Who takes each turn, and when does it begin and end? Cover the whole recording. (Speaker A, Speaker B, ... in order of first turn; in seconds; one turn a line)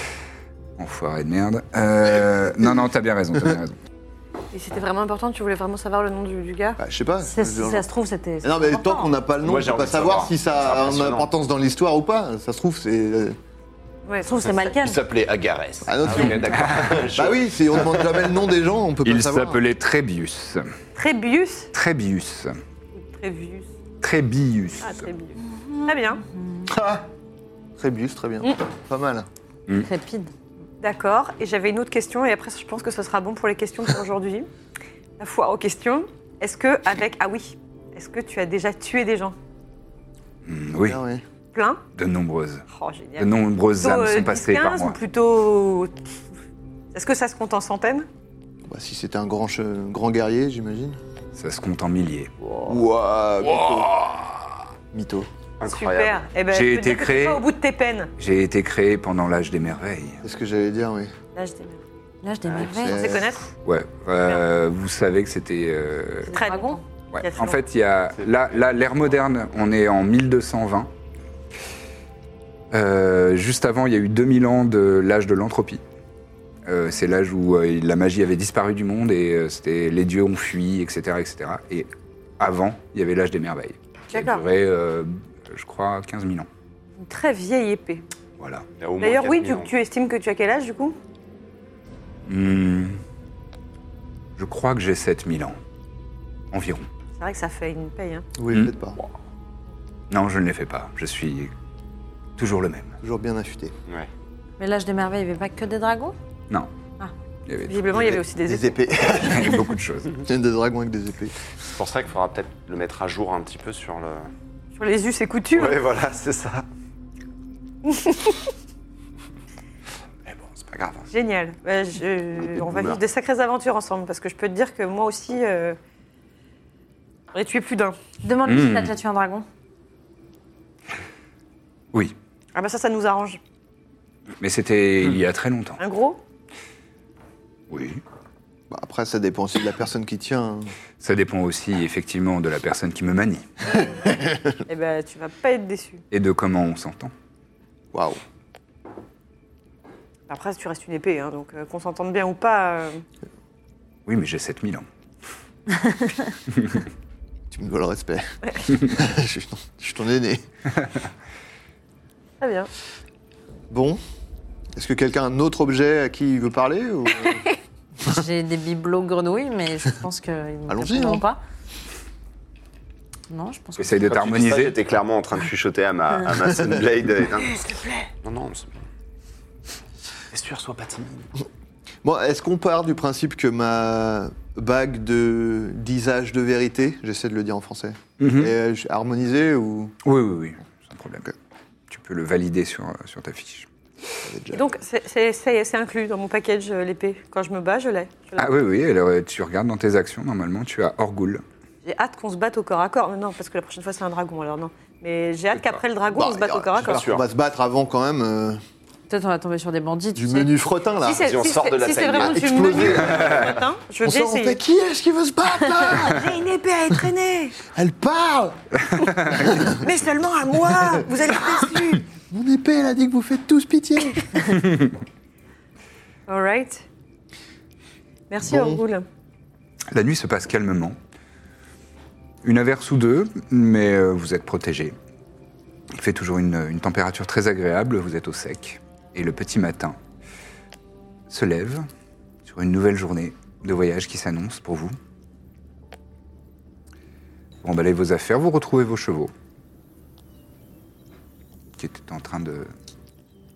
Speaker A: 0.8-3.7
Speaker B: 2.2-2.9
Speaker C: 4.5-6.8
Speaker B: 6.8-7.8
Speaker D: 7.2-9.1
Speaker B: 8.4-13.4
Speaker E: 9.4-11.3
Speaker C: 14.1-14.4
Speaker D: 14.2-15.0
Speaker E: 14.4-18.2
Speaker B: 15.8-19.6
Speaker A: 16.5-17.0
Speaker A: 19.0-20.7
Speaker C: 20.9-21.7
Speaker A: 21.7-22.6
Speaker C: 22.9-23.7
Speaker A: 24.0-25.1
Speaker C: 24.8-26.2
Speaker D: 25.4-26.7
Speaker B: 26.7-27.1
Speaker B: 27.8-29.3
Speaker D: 29.8-30.3
Speaker C: 30.8-34.5
Speaker C: 35.2-39.3
Speaker A: 40.4-41.0
Speaker B: 40.9-41.2
Speaker C: 41.5-41.8
Speaker A: 41.9-42.6
Speaker C: 42.7-45.9
Speaker A: 43.2-45.0
Speaker C: 46.9-48.1
Speaker B: 48.6-51.0
Speaker A: 51.3-52.3
Speaker B: 52.6-53.9
Speaker A: 53.5-54.4
Speaker B: 54.9-55.3
Speaker E: 55.6-56.2
Speaker C: 55.6-58.1
Speaker A: 56.5-57.4
Speaker A: 58.2-60.2
Speaker B: 60.2-61.1
Speaker C: 61.3-61.8
Speaker D: 62.2-63.1
Speaker B: 62.6-63.4
Speaker C: 62.9-63.5
Speaker A: 63.6-66.4
Speaker C: 66.3-67.6
Speaker D: 66.3-66.8
Speaker A: 67.1-70.9
Speaker E: 68.2-68.6
Speaker A: 72.7-75.8
Speaker A: 76.7-81.9
Speaker A: 82.4-86.5
Speaker C: 84.1-84.4
Speaker C: 87.0-88.0
Speaker A: 88.4-88.7
Speaker E: 88.8-89.7
Speaker C: 89.0-91.0
Speaker A: 92.2-93.0
Speaker A: 94.4-95.6
Speaker A: 96.5-96.9
Speaker C: 97.2-98.2
Speaker B: 98.3-99.0
Speaker A: 100.1-101.5
Speaker A: 102.4-103.0
Speaker B: 103.0-103.7
Speaker D: 104.6-106.1
Speaker A: 107.5-107.9
Speaker C: 107.7-109.2
Speaker B: 108.4-109.6
Speaker A: 109.1-110.2
Speaker B: 110.2-111.3
Speaker E: 111.7-114.3
Speaker C: 114.8-115.8
Speaker E: 115.5-116.6
Speaker C: 117.8-118.4
Speaker E: 120.2-121.1
Speaker C: 121.1-125.8
Speaker E: 122.5-123.0
Speaker C: 127.3-128.0
Speaker D: 128.2-129.4
Speaker A: 128.4-128.9
Speaker C: 132.5-133.4
Speaker A: 134.4-135.8
Speaker C: 135.8-136.2
Speaker A: 137.7-138.0
Speaker B: 138.7-140.7
Speaker A: 141.0-143.5
Speaker B: 144.0-144.5
Speaker C: 144.7-146.0
Speaker A: 146.1-147.1
Speaker B: 147.9-148.2
Speaker C: 150.3-153.0
Speaker A: 154.1-154.9
Speaker B: 157.5-160.4
Speaker C: 162.4-162.7
Speaker B: 163.7-164.0
Speaker B: 164.8-167.4
Speaker D: 168.0-171.4
Speaker B: 170.7-171.2
Speaker D: 173.3-174.0
Speaker A: 173.8-174.8
Speaker E: 174.0-178.8
Speaker B: 176.5-176.8
Speaker E: 180.3-181.3
Speaker B: 182.0-189.9
Speaker A: 188.2-188.5
Speaker A: 190.0-191.3
Speaker A: 191.9-193.7
Speaker B: 194.2-194.7
Speaker C: 194.5-198.5
Speaker A: 198.4-201.4
Speaker C: 201.8-207.1
Speaker B: 206.1-208.6
Speaker E: 206.8-207.2
Speaker D: 209.1-210.5
Speaker B: 210.1-211.2
Speaker C: 211.0-214.6
Speaker E: 211.2-213.5
Speaker B: 212.2-216.4
Speaker C: 215.9-217.6
Speaker B: 217.7-218.6
Speaker A: 218.8-219.5
Speaker B: 219.2-219.8
Speaker C: 219.7-222.0
Speaker B: 220.8-221.1
Speaker B: 222.3-224.2
Speaker A: 224.5-224.9
Speaker C: 226.3-226.8
Speaker C: 228.3-229.1
Speaker B: 228.4-228.8
Speaker A: 229.9-230.9
Speaker A: 232.4-234.9
Speaker A: 235.9-240.0
Speaker A: 241.3-241.9
Speaker A: 242.4-244.9
Speaker A: 247.6-249.3
Speaker A: 251.8-252.7